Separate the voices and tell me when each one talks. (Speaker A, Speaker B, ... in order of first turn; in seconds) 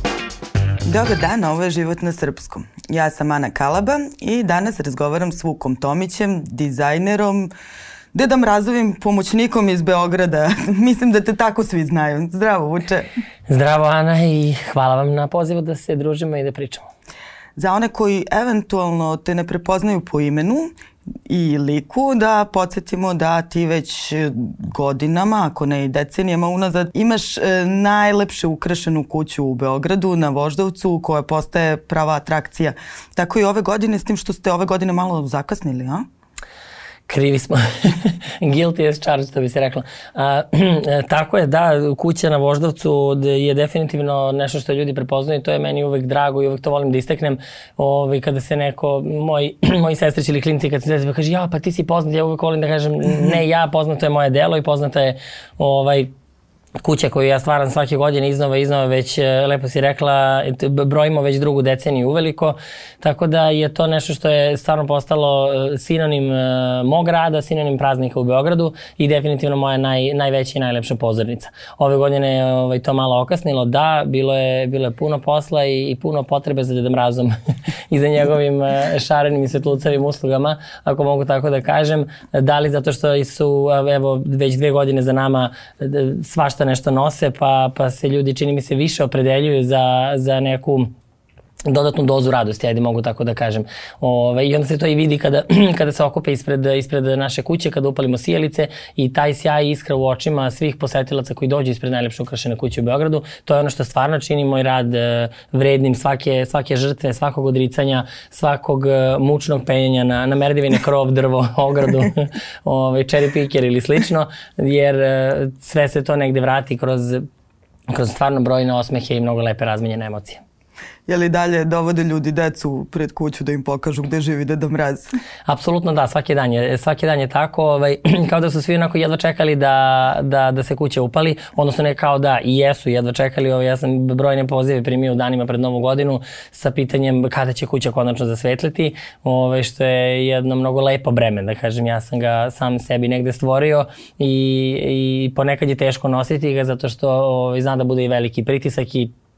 Speaker A: 0.8-7.5, 8.1-13.1, 17.6-20.7, 21.3-36.1, 121.1-125.1
Speaker B: 13.5-16.9, 37.1-56.1, 56.8-77.3, 77.9-90.9, 91.7-117.3, 117.9-120.4, 125.5-149.1